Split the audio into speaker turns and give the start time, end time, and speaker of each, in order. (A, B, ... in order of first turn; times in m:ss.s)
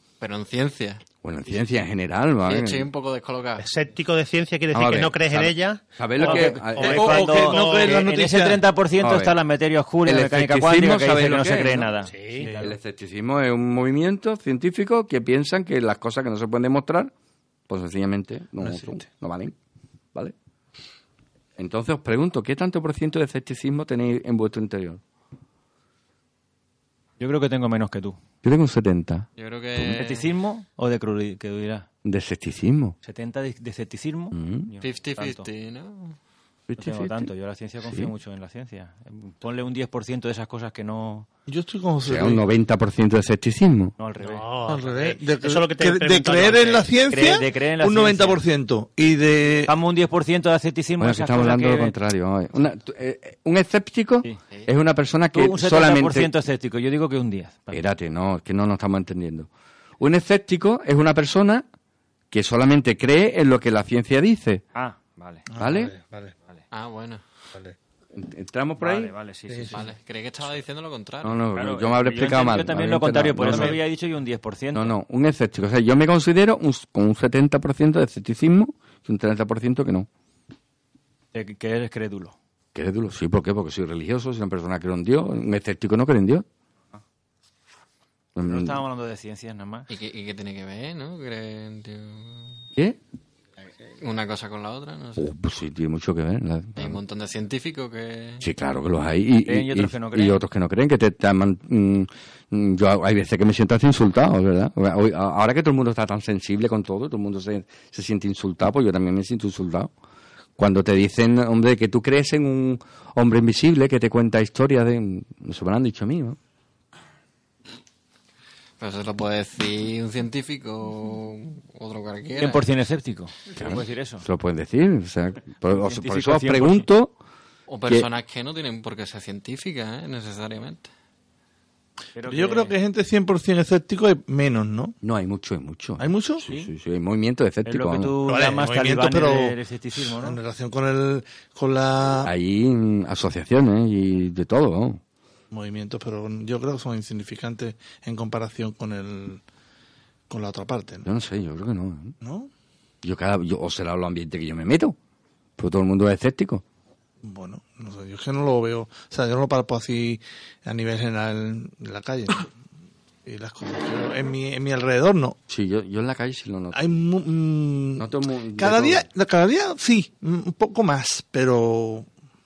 0:00.2-0:01.0 A
0:01.2-0:02.9 B
0:02.5-0:03.7 A
0:03.6-0:08.0 C
0:04.7-0:07.1 B
0:06.2-0:12.8 D
0:06.2-0:08.6 E
0:09.0-0:09.4 B
0:10.0-0:11.9 B
0:12.1-0:12.5 C
0:12.6-0:17.1 B
0:17.7-0:19.6 B
0:21.6-0:25.0 B
0:27.2-0:28.2 D
0:28.4-0:29.3 B
0:29.4-0:30.3 A
0:29.8-0:31.9 D
0:32.0-0:33.0 B
0:33.0-0:35.5 D
0:34.3-0:34.7 B
0:34.8-0:36.2 A
0:36.7-0:37.3 B
0:36.8-0:41.3 D
0:41.5-0:42.4 E
0:42.0-0:43.9 B
0:44.0-0:44.4 D
0:44.2-0:46.9 C
0:44.7-0:49.7 E
0:47.1-0:48.4 D
0:49.7-0:52.0 D
0:51.0-0:56.3 B
0:55.3-0:57.8 D
0:57.7-1:01.7 B
1:02.3-1:04.6 B
1:04.7-1:05.5 D
1:05.5-1:06.3 E
1:05.6-1:05.9 B
1:06.7-1:07.2 A
1:08.1-1:09.1 B
1:08.8-1:09.9 D
1:09.7-1:11.4 A
1:11.2-1:13.8 B
1:11.6-1:14.9 D
1:14.7-1:20.1 B
1:21.3-1:22.4 D
1:22.8-1:26.4 B
1:28.4-1:28.8 B
1:28.4-1:29.9 D
1:29.9-1:32.5 A
1:34.0-1:35.3 A
1:35.2-1:37.0 B
1:36.8-1:38.4 A
1:38.4-1:49.9 B
1:39.5-1:40.4 D
1:50.6-1:56.4 B
1:58.8-2:02.7 A
2:02.4-2:04.2 D
2:03.6-2:07.2 B
2:05.8-2:06.9 D
2:07.7-2:10.9 A
2:12.2-2:12.7 D
2:12.2-2:14.9 E
2:15.0-2:18.2 B
2:16.0-2:16.5 E
2:17.6-2:20.4 D
2:18.2-2:22.3 E
2:22.2-2:25.0 B
2:25.5-2:29.4 E
2:30.3-2:31.0 E
2:31.0-2:32.2 B
2:32.2-2:32.5 E
2:33.0-2:35.0 B
2:35.6-2:36.6 B
2:37.2-2:42.5 E
2:43.3-2:45.4 E
2:45.5-2:46.8 B
2:46.7-2:52.1 E
2:48.0-2:49.1 B